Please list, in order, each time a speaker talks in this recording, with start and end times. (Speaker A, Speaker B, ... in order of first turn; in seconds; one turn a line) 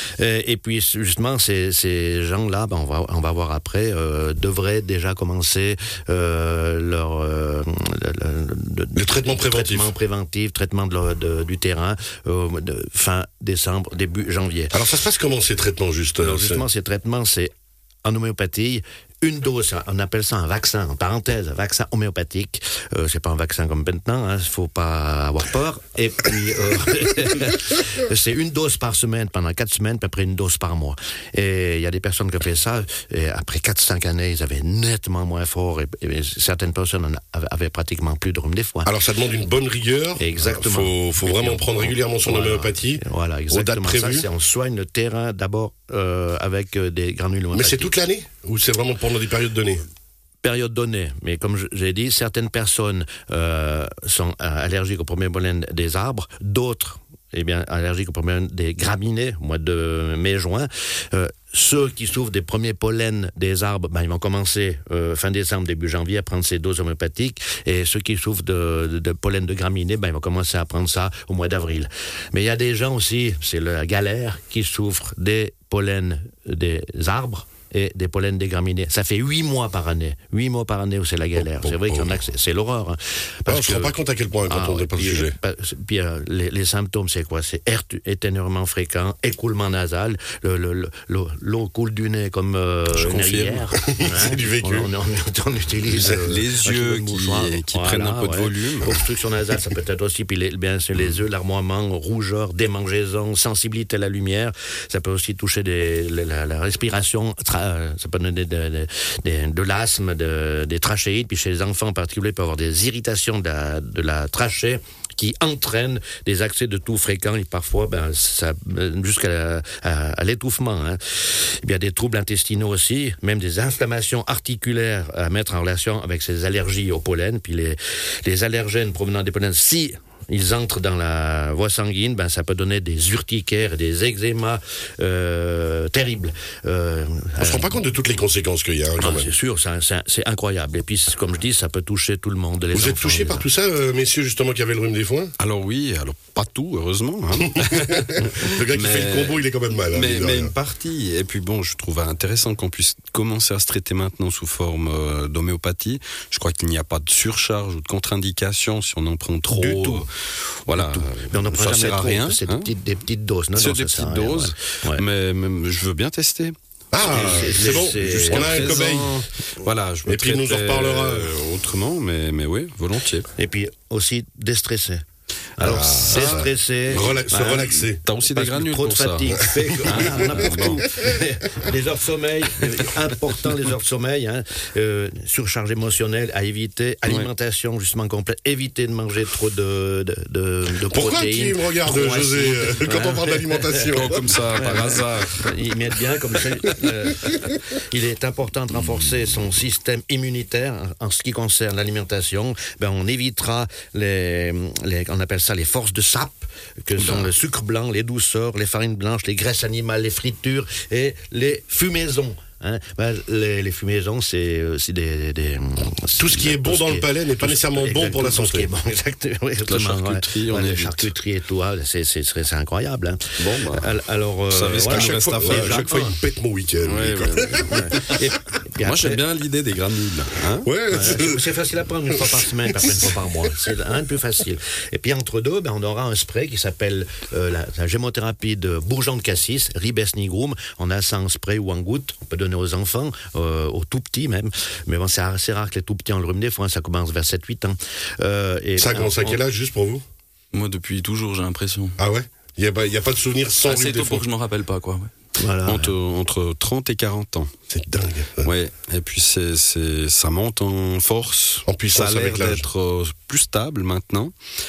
Speaker A: 0.2-14.8
Speaker B: 8.9-9.9
Speaker B: 14.7-16.6
Speaker A: 16.2-17.5
Speaker A: 18.0-38.9
Speaker B: 38.9-44.3
Speaker A: 40.2-47.9
Speaker B: 47.5-49.8
Speaker A: 50.4-137.8
Speaker B: 81.4-82.2
Speaker B: 83.5-85.4
Speaker C: 92.9-93.7
Speaker B: 93.8-94.9
Speaker C: 96.0-99.0
Speaker B: 137.4-139.3
Speaker A: 139.0-143.5
Speaker B: 142.7-145.3
Speaker C: 145.4-160.1
Speaker B: 147.4-150.5
Speaker A: 159.5-160.1
Speaker C: 160.6-162.7
Speaker A: 160.7-165.0
Speaker C: 163.6-166.6
Speaker B: 166.9-169.2
Speaker A: 167.1-169.3
Speaker C: 167.1-173.3
Speaker B: 170.1-171.3
Speaker A: 173.3-175.0
Speaker A: 175.6-226.2
Speaker B: 175.6-178.0
Speaker C: 175.7-180.8
Speaker B: 179.8-180.2
Speaker B: 190.9-194.3
Speaker C: 193.9-195.4
Speaker C: 207.0-207.3
Speaker B: 216.2-218.7
Speaker C: 219.7-221.1
Speaker C: 223.4-223.9
Speaker C: 224.5-226.1
Speaker B: 224.9-227.8
Speaker C: 226.8-228.2
Speaker A: 227.7-229.2
Speaker C: 228.8-230.7
Speaker B: 230.6-231.4
Speaker A: 230.9-249.4
Speaker B: 232.1-233.1
Speaker B: 248.8-250.0
Speaker D: 250.5-252.0
Speaker B: 252.0-254.2
Speaker D: 253.6-255.1
Speaker A: 255.4-255.9
Speaker C: 255.7-257.5
Speaker B: 257.7-258.5
Speaker C: 258.4-264.3
Speaker B: 261.7-262.7